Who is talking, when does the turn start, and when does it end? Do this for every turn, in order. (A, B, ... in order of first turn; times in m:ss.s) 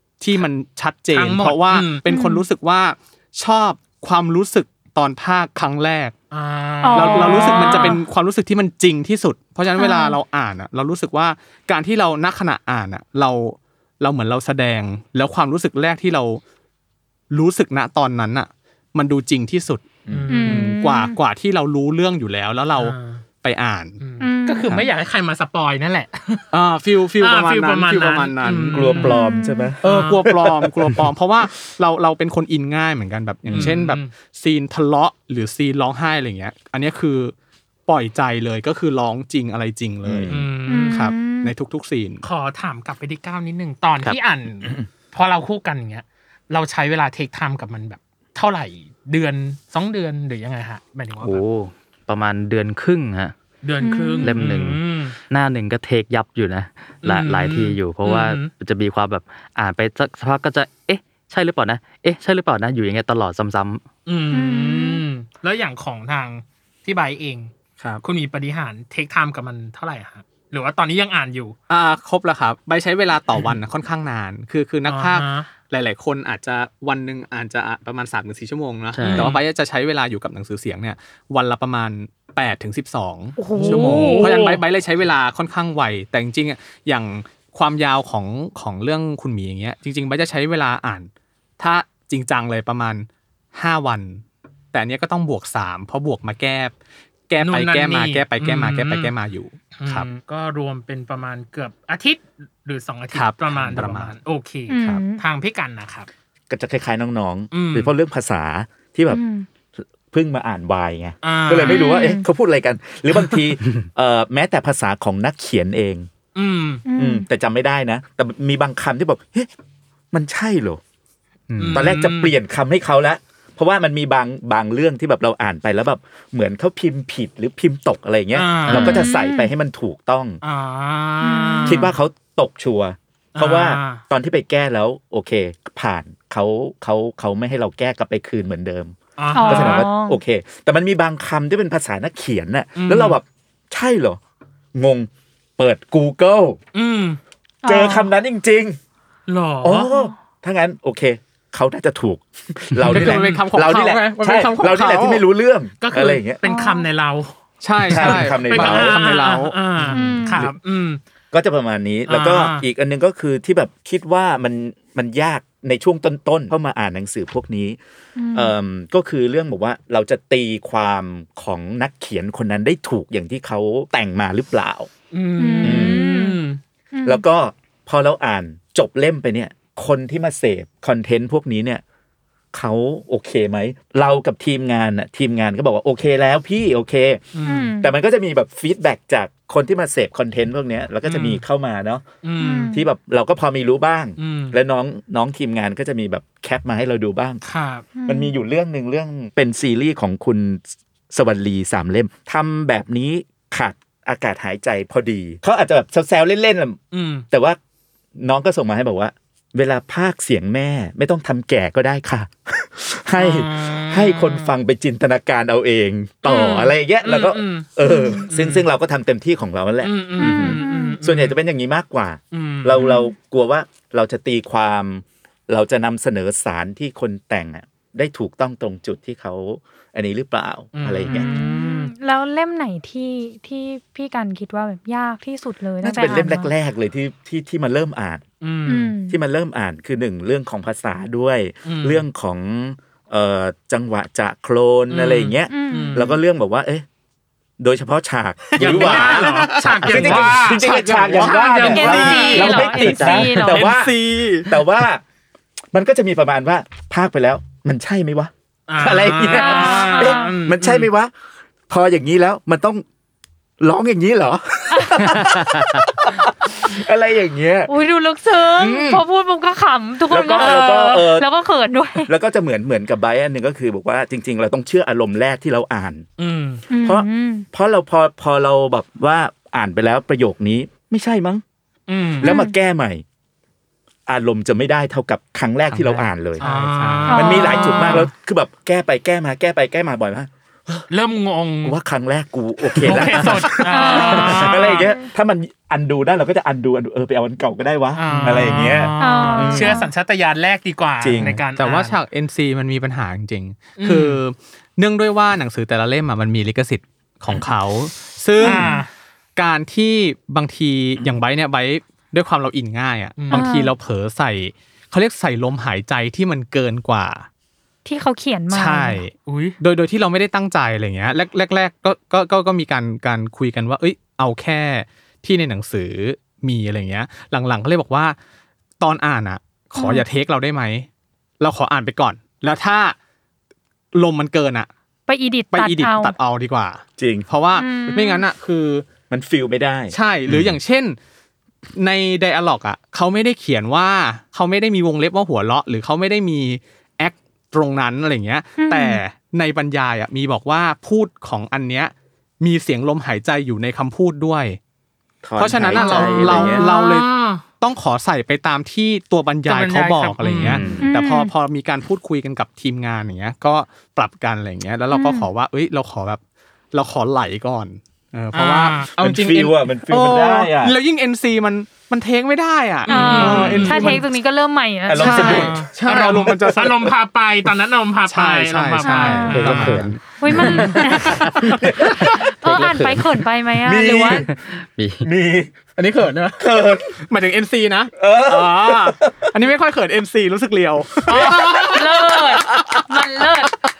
0:00.2-0:06.1 A
0:01.1-0:02.0 B
0:02.1-0:02.4 C
0:06.3-0:08.0 B
0:06.8-0:08.0 C
0:06.9-0:16.4 A
0:09.8-0:10.2 C
0:17.3-0:19.9 A
0:20.0-0:20.3 D
0:20.1-0:20.8 B
0:20.3-0:21.2 C
0:20.4-0:24.0 A
0:22.8-0:23.2 B
0:24.0-0:26.5 B
0:24.2-0:24.6 C
0:26.5-0:29.1 A
0:27.2-0:29.2 B
0:28.7-0:31.0 D
0:29.0-0:29.7 C
0:29.8-0:30.2 B
0:29.8-0:37.3 A
0:33.4-0:33.7 D
0:33.5-0:34.1 B
0:37.9-0:42.2 A
0:40.0-0:40.4 D
0:40.3-0:41.0 B
0:40.7-0:41.5 C
0:42.2-0:51.4 B
0:51.2-0:53.3 E
0:53.6-0:55.2 B
0:53.8-0:54.4 C
0:54.2-1:03.8 E
0:57.0-0:58.5 B
1:04.0-1:07.5 B
1:04.3-1:05.0 C
1:08.0-1:11.6 B
1:11.7-1:34.2 A
1:14.8-1:15.5 B
1:18.9-1:19.3 E
1:19.0-1:19.4 B
1:23.4-1:24.3 C
1:23.6-1:24.6 B
1:34.7-1:36.7 A
1:37.3-1:40.1 A
1:37.4-1:39.1 B
1:39.8-1:46.1 B
1:43.1-1:44.1 A
1:44.7-1:45.2 C
1:46.5-1:49.2 D
1:47.5-1:47.9 B
1:49.1-1:49.4 C
1:49.8-1:56.1 D
1:51.2-1:52.1 B
1:51.6-1:52.3 C
1:56.3-1:56.8 B
1:56.8-1:57.3 C
1:56.9-1:59.5 D
2:00.1-2:00.8 D
2:01.5-2:01.9 E
2:01.6-2:02.3 B
2:01.6-2:10.4 D
2:08.3-2:09.0 B
2:08.7-2:09.0 E
2:08.8-2:09.5 C
2:10.4-2:11.9 B
2:11.2-2:11.9 C
2:11.6-2:24.2 D
2:13.3-2:14.0 B
2:19.2-2:19.8 B
2:19.3-2:20.2 C
2:22.8-2:23.2 B
2:24.7-2:26.6 D
2:26.7-2:27.2 B
2:27.6-2:28.1 C
2:27.6-2:28.8 D
2:29.3-2:29.9 B
2:29.6-2:36.4 D
2:29.9-2:30.1 C
2:32.9-2:35.2 A
2:33.0-2:33.4 B
2:35.8-2:41.0 B
2:36.4-2:36.9 C
2:37.6-2:39.6 A
2:37.9-2:39.1 D
2:39.8-2:40.5 D
2:39.9-2:40.4 C
2:41.3-2:47.8 D
2:42.1-2:42.6 B
2:48.2-2:48.5 C
2:48.3-2:54.9 D
2:55.1-2:56.6 B
2:55.4-2:56.4 C
2:55.6-2:56.0 D
2:56.9-2:57.2 C
2:57.0-3:01.8 D
3:02.5-3:07.2 D
3:07.3-3:07.7 B
3:07.4-3:07.9 C
3:07.8-3:12.0 D
3:11.0-3:11.4 B
3:12.2-3:12.8 B
3:12.4-3:12.8 C
3:12.7-3:17.4 D
3:14.2-3:14.6 B
3:17.4-3:17.8 B
3:17.9-3:18.3 C
3:18.0-3:26.8 D
3:26.9-3:27.2 B
3:27.3-3:27.6 D
3:28.2-3:51.3 D
3:33.2-3:34.5 B
3:36.2-3:38.6 B
3:37.8-3:38.2 C
3:39.8-3:41.4 B
3:40.2-3:41.0 C
3:42.3-3:42.9 B
3:42.8-3:43.1 C
3:50.7-3:51.9 B
3:51.1-3:56.5 C
3:55.8-3:58.2 D
3:56.0-3:56.3 B
3:58.4-3:58.9 B
3:58.6-3:59.2 C
3:59.1-4:06.8 D
4:01.6-4:02.0 B
4:04.9-4:06.1 B
4:05.5-4:06.1 C
4:07.6-4:15.0 D
4:08.5-4:12.9 A
4:08.6-4:13.0 B
4:11.6-4:13.7 C
4:13.0-4:13.5 E
4:13.4-4:14.6 A
4:15.7-4:21.1 D
4:18.7-4:20.9 B
4:19.3-4:20.4 C
4:21.7-4:22.8 D
4:23.6-4:27.7 D
4:25.4-4:25.8 E
4:27.7-4:32.1 C
4:28.4-4:29.0 D
4:30.1-4:31.3 D
4:30.3-4:31.0 B
4:32.0-4:36.0 D
4:36.2-4:36.6 B
4:36.7-4:37.4 C
4:36.8-4:41.4 D
4:41.9-4:42.3 B
4:42.2-4:43.0 D
4:42.2-4:42.5 C
4:44.1-4:46.4 D
4:45.7-4:47.3 A
4:46.4-4:48.1 B
4:47.1-4:48.0 C
4:47.1-4:50.9 D
4:50.9-4:51.7 B
4:51.6-4:59.8 D
4:52.8-4:54.9 B
4:52.8-4:54.2 A
4:53.7-4:55.1 C
4:57.9-5:02.0 B
4:58.1-4:58.7 A
4:59.0-4:59.9 C
5:01.0-5:01.4 D
5:01.2-5:08.7 A
5:03.8-5:04.2 B
5:08.4-5:08.8 C
5:08.4-5:08.9 B
5:09.4-5:17.2 A
5:13.2-5:13.5 B
5:13.3-5:13.7 C
5:17.8-5:19.0 C
5:18.5-5:28.2 A
5:19.2-5:19.6 B
5:28.8-5:30.9 A
5:29.8-5:30.0 C
5:31.4-5:33.0 A
5:33.9-5:34.7 A
5:35.1-5:36.2 C
5:35.5-5:38.8 A
5:37.0-5:37.3 D
5:37.5-5:38.2 C
5:39.1-5:40.5 D
5:39.9-5:41.0 A
5:41.8-5:54.6 A
5:48.6-5:49.0 C
5:55.2-5:56.7 D
5:55.4-6:06.2 A
5:56.0-5:57.4 B
5:59.4-6:00.6 B
6:00.3-6:00.9 D
6:00.8-6:01.3 C
6:04.9-6:05.3 C
6:06.7-6:14.0 A
6:08.3-6:08.9 B
6:09.0-6:10.8 D
6:12.8-6:14.0 B
6:12.9-6:15.5 C
6:14.8-6:16.6 D
6:15.0-6:16.9 A
6:15.0-6:21.3 B
6:18.0-6:20.8 A
6:18.8-6:19.5 C
6:19.3-6:23.2 E
6:20.2-6:21.3 C
6:21.4-6:22.0 D
6:21.8-6:24.3 C
6:23.6-6:24.4 D
6:24.3-6:25.1 E
6:25.0-6:25.5 D
6:25.8-6:26.4 A
6:26.4-6:27.0 D
6:27.0-6:31.7 A
6:28.0-6:29.1 D
6:31.1-6:32.4 B
6:31.1-6:31.6 D
6:31.7-6:33.5 C